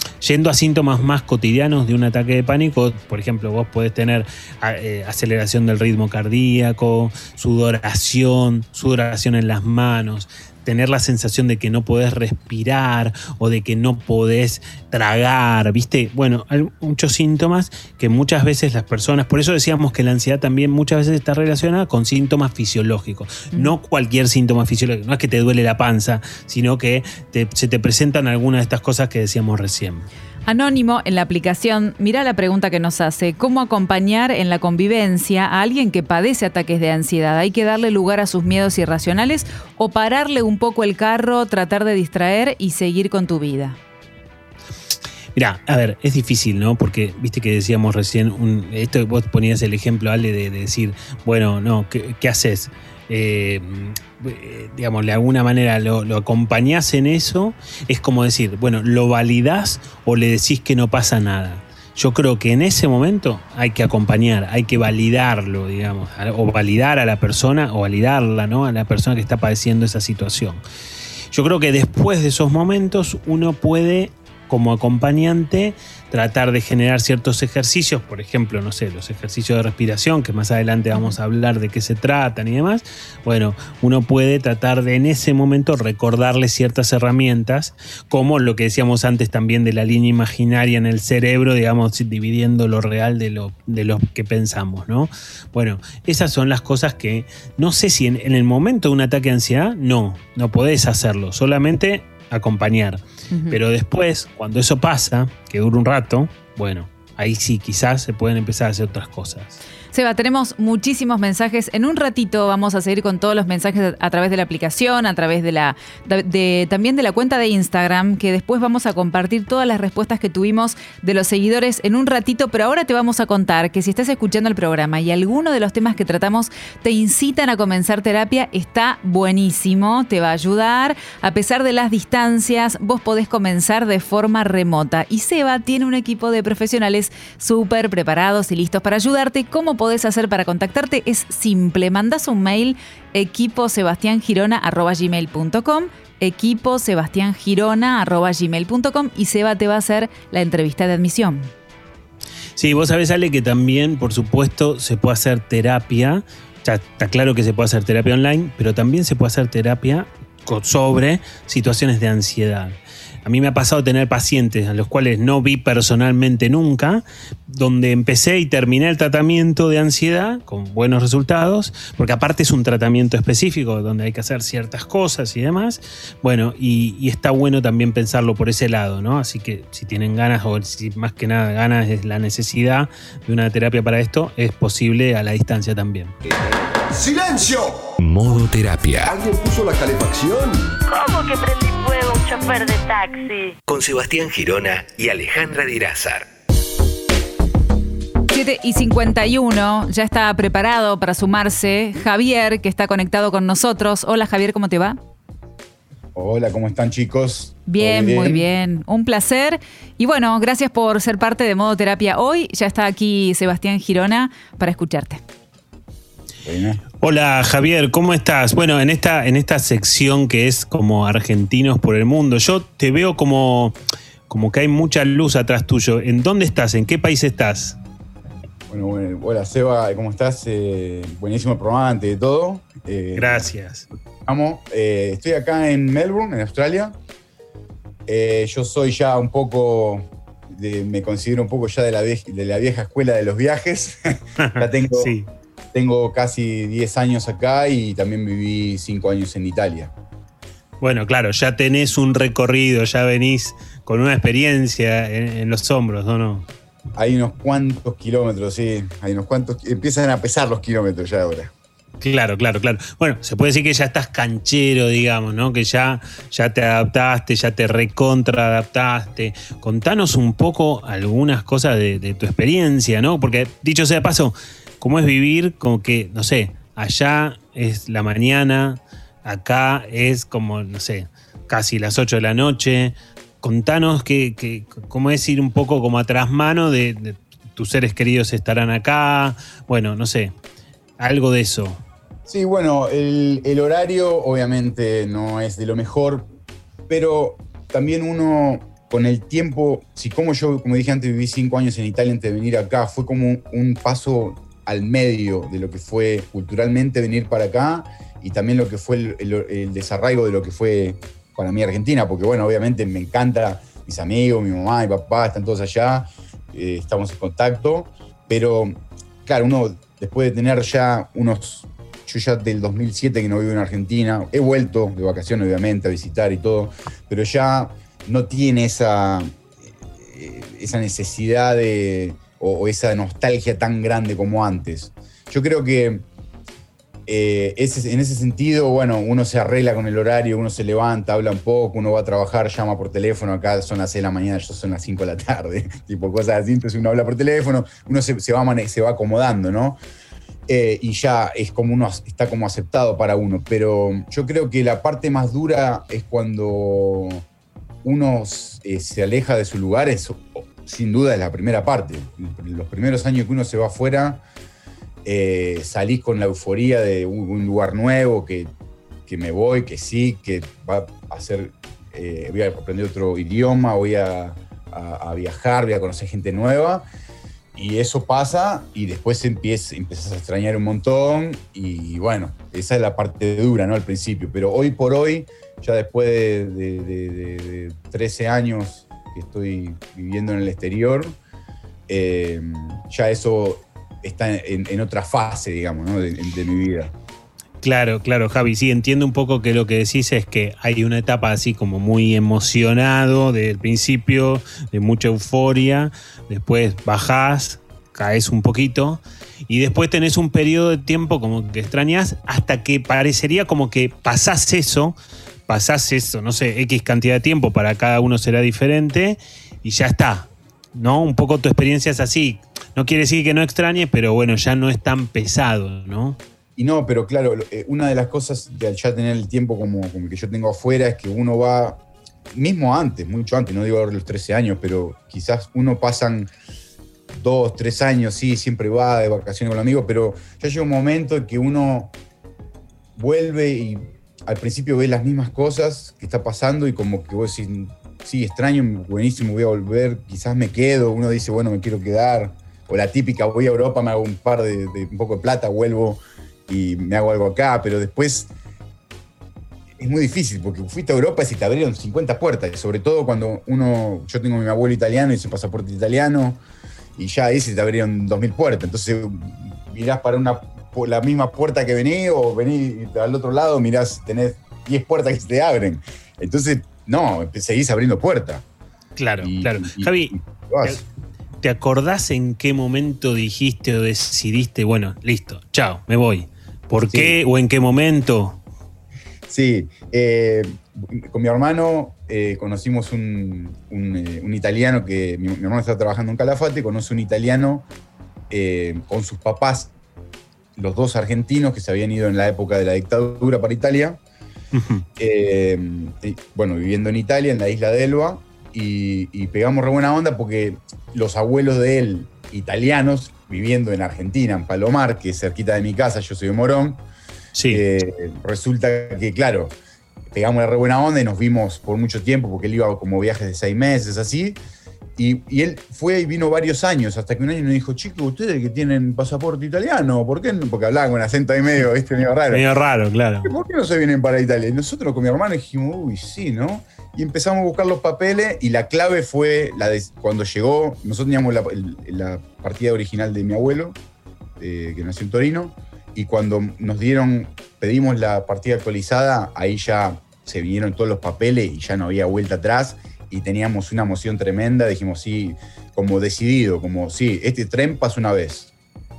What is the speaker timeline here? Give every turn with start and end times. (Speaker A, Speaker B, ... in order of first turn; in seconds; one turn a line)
Speaker A: 0.2-30.1
Speaker B: 30.5-43.8
Speaker A: 45.4-70.6
Speaker A: 71.3-109.6
Speaker B: 103.3-103.6
Speaker B: 109.9-151.5
Speaker A: 152.6-186.1
Speaker C: 186.9-187.9
Speaker D: 188.0-189.1
Speaker C: 189.1-190.7
Speaker E: 190.9-193.6
Speaker D: 193.7-196.3
Speaker B: 198.3-205.0
Speaker F: 206.2-208.4
Speaker B: 207.7-215.2
Speaker F: 216.4-216.8
Speaker A: 217.0-223.7
Speaker A: 224.3-227.8
Speaker F: 228.7-233.5
Speaker A: 233.2-233.9
Speaker F: 234.3-236.9
Speaker F: 238.1-245.2
Speaker A: 244.4-245.3
Speaker F: 245.7-249.9
Speaker A: 250.8-256.5
Speaker F: 257.0-261.5
Speaker A: 262.0-290.3
Speaker A: 291.0-291.8
Speaker F: 292.3-296.3
Speaker F: 296.9-329.3
Speaker F: 330.0-336.1
Speaker F: 337.1-349.8
Speaker F: 350.5-357.2
Speaker F: 357.8-364.2
Speaker F: 365.1-368.5
Speaker F: 369.1-376.9
Speaker F: 377.6-391.2
Speaker F: 391.9-396.9
Speaker A: 397.6-415.0
Speaker A: 415.5-426.2
Speaker F: 426.6-431.8
Speaker F: 432.3-436.3
Speaker F: 437.1-441.9
Speaker F: 443.0-458.3
Speaker F: 459.8-466.4
Speaker F: 467.0-478.4
Speaker A: 479.0-480.8
Speaker F: 479.2-480.8
Speaker A: 481.4-488.4
Speaker F: 486.9-487.2
Speaker F: 489.3-497.6
Speaker F: 498.3-499.7
Speaker F: 500.6-504.0
Speaker A: 504.5-504.9
Speaker F: 505.0-516.8
Speaker A: 517.4-517.6
Speaker F: 517.5-519.5
Speaker F: 520.1-524.4
Speaker F: 525.0-532.4
Speaker A: 532.3-533.3
Speaker F: 533.2-543.8
Speaker F: 544.4-558.5